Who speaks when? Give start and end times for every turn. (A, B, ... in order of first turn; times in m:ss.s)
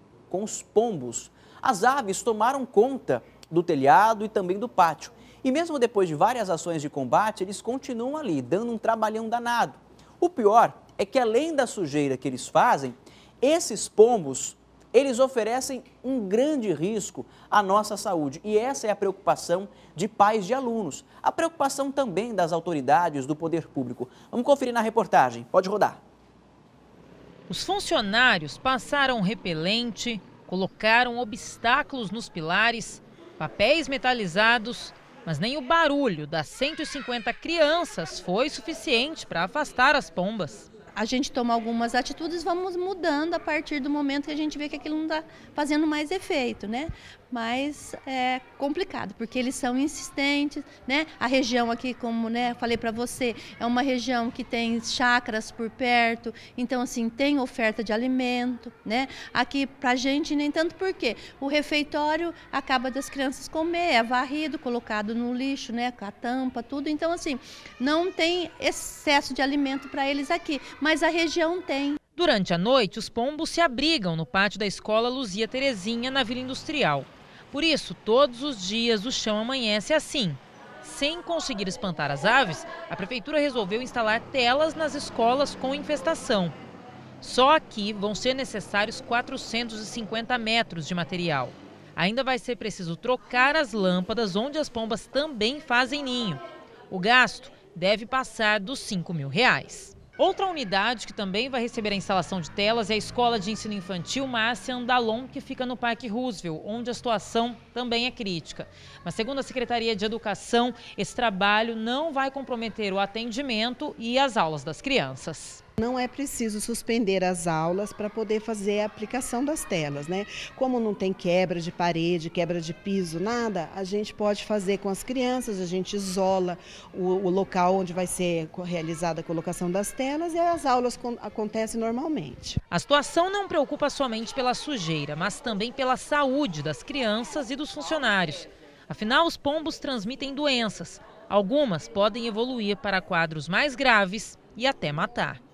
0:00.3-0:26.0 A
0:27.5-0:40.7 B
0:40.9-1:12.0 C
1:12.2-1:26.6 B
1:27.2-1:55.6 B
1:55.8-2:12.6 D
2:12.7-2:25.4 B